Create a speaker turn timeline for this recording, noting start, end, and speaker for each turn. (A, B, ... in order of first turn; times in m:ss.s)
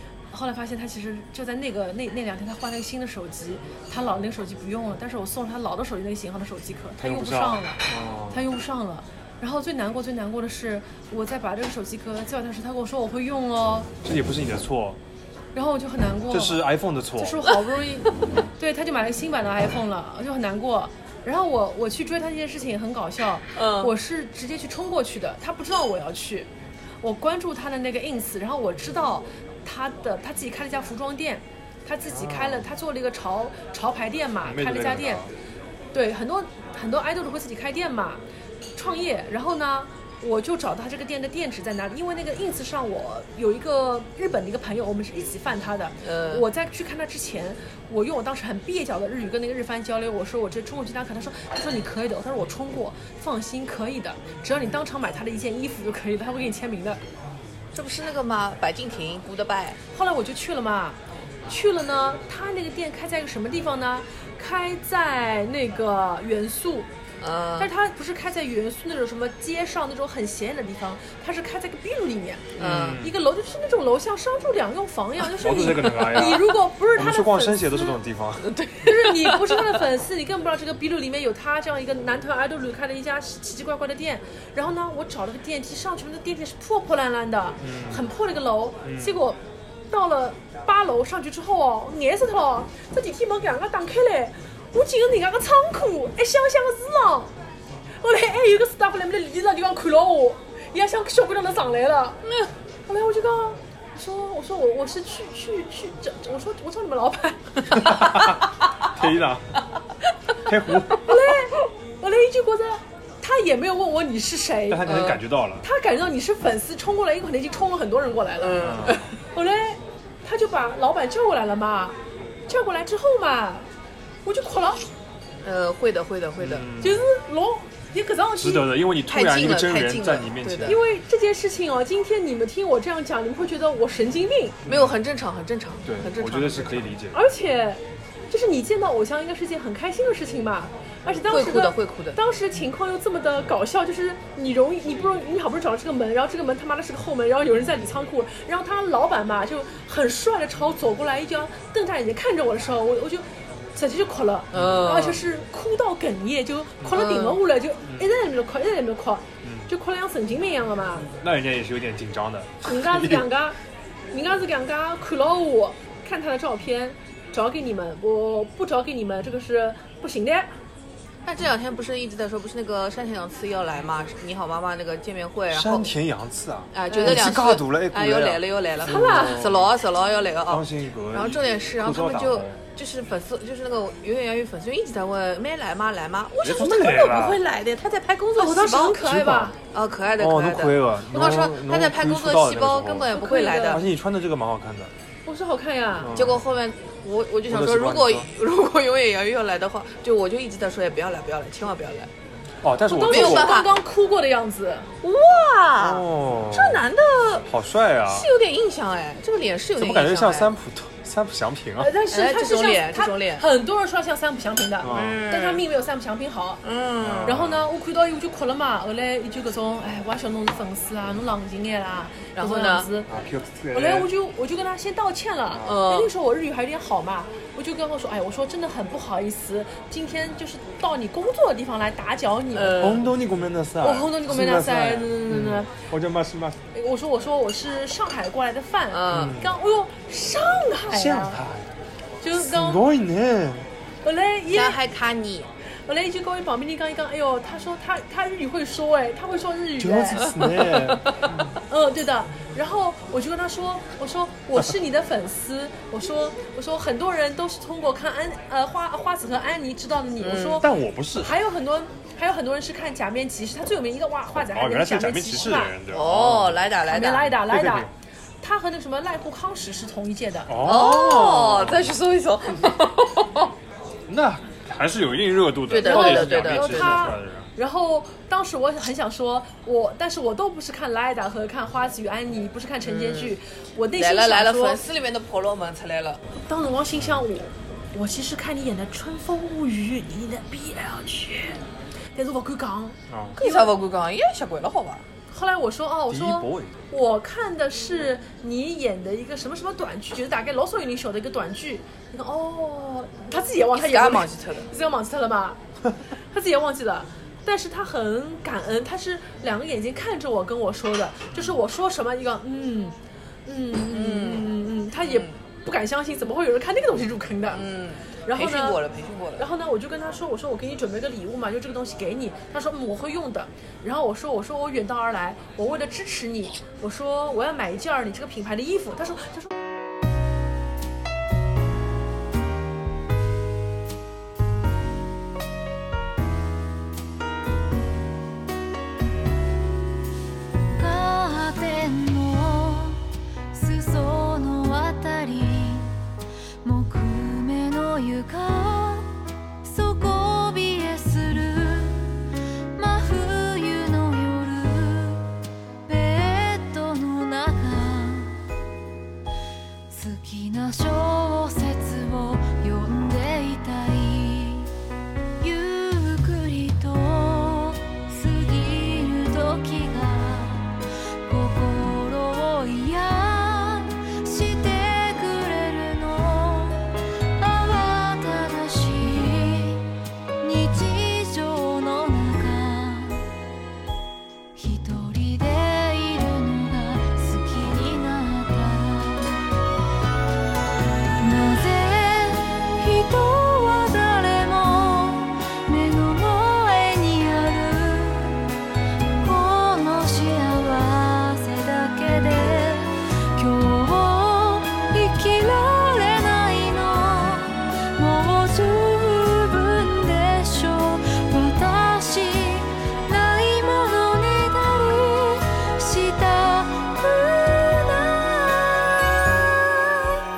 0:00.3-0:13.9 A
0:07.0-0:08.4 B
0:14.0-0:15.0 B
0:15.5-0:26.5 A
0:16.3-0:17.4 B
0:23.5-0:23.9 C
0:27.0-0:35.3 A
0:32.1-0:32.6 B
0:34.4-0:35.3 B
0:35.9-0:38.2 A
0:38.7-0:57.0 A
0:46.0-0:46.4 C
0:57.7-0:59.8 C
0:59.9-1:06.9 A
1:07.2-1:07.7 C
1:07.6-1:18.0 A
1:12.6-1:13.0 C
1:12.6-1:13.2 B
1:15.4-1:18.6 B
1:18.4-1:19.7 C
1:18.8-1:29.4 A
1:27.6-1:28.1 B
1:28.8-1:29.2 B
1:29.9-1:37.3 A
1:38.0-1:42.2 A
1:42.9-1:48.1 A
1:47.8-1:49.6 B
1:50.4-1:51.2 B
1:50.9-2:02.0 A
1:54.7-1:55.6 B
1:54.8-1:55.2 C
1:58.4-1:59.1 C
1:58.6-1:59.0 B
2:02.5-2:03.7 A
2:04.2-2:04.8 A
2:05.4-2:06.7 C
2:06.4-2:07.1 B
2:06.8-2:08.7 A
2:08.4-2:10.8 B
2:09.0-2:10.8 C
2:10.6-2:14.6 A
2:14.6-2:15.0 B
2:14.6-2:16.7 C
2:15.8-2:17.2 B
2:17.1-2:41.1 A
2:21.2-2:22.2 C
2:34.5-2:35.0 B
2:34.5-2:35.2 C
2:36.9-2:37.4 C
2:39.4-2:39.7 B
2:41.2-2:43.3 B
2:42.6-2:43.6 A
2:44.1-2:50.5 A
2:51.2-2:55.9 C
2:55.5-2:59.7 B
2:56.7-3:09.1 C
2:56.9-2:57.2 A
2:58.8-2:59.5 A
3:00.4-3:02.6 B
3:06.4-3:07.4 B
3:08.4-3:09.6 A
3:09.0-3:09.5 B
3:09.7-3:13.8 C
3:10.2-3:13.2 B
3:13.1-3:13.8 A
3:13.7-3:14.9 B
3:15.2-3:16.2 A
3:16.0-3:16.4 B
3:16.1-3:22.1 C
3:17.5-3:18.3 B
3:22.6-3:23.6 B
3:22.9-3:24.9 A
3:23.1-3:23.7 C
3:25.0-3:27.4 C
3:25.8-3:26.9 B
3:27.4-3:28.3 B
3:28.1-3:30.5 C
3:29.8-3:31.9 B
3:31.8-3:36.6 A
3:32.0-3:33.4 C
3:34.8-3:35.2 B
3:34.9-3:35.6 C
3:36.6-3:37.4 C
3:37.0-3:37.6 B
3:37.2-3:43.1 A
3:42.3-3:42.9 C
3:43.1-3:44.1 B
3:43.7-3:53.0 A
3:45.5-3:45.8 B
3:45.6-3:46.1 C
3:52.5-3:53.0 C
3:52.7-3:56.6 B
3:53.8-3:55.7 A
3:56.7-4:01.4 A
3:58.9-3:59.4 C
3:59.1-3:59.6 B
4:00.9-4:01.7 B
4:02.2-4:02.9 A
4:02.3-4:03.7 B
4:04.0-4:04.8 A
4:04.5-4:05.5 C
4:05.8-4:10.3 A
4:09.8-4:11.1 B
4:10.2-4:11.3 C
4:11.7-4:25.8 A
4:20.2-4:20.7 C
4:20.6-4:21.3 B
4:24.4-4:26.6 B
4:25.9-4:27.3 C
4:26.8-4:27.9 A
4:27.3-4:27.9 B
4:28.4-4:30.6 A
4:30.5-4:31.9 B
4:30.6-4:33.5 C
4:34.1-4:37.5 B
4:35.7-4:37.1 C
4:35.8-4:44.8 A
4:42.8-4:43.4 C
4:44.0-4:46.2 C
4:46.3-4:51.6 A
4:47.0-4:47.2 B
4:52.1-4:53.7 A
4:53.1-4:53.4 B
4:53.4-4:55.0 C
4:55.3-5:05.6 A
4:56.1-4:56.8 B
5:03.7-5:04.7 C
5:06.1-5:17.6 A
5:13.9-5:15.3 C
5:17.5-5:19.4 C
5:18.2-5:18.8 A
5:19.4-5:29.5 A
5:40.7-5:43.0 D
5:43.5-5:45.9 D
5:46.6-5:55.3 D
5:55.8-5:58.4 D
5:59.9-6:04.7 D
6:05.4-6:19.8 D
6:20.4-6:23.3 D
6:24.6-6:29.4 D
6:31.2-6:38.5 D
6:39.2-7:00.2 D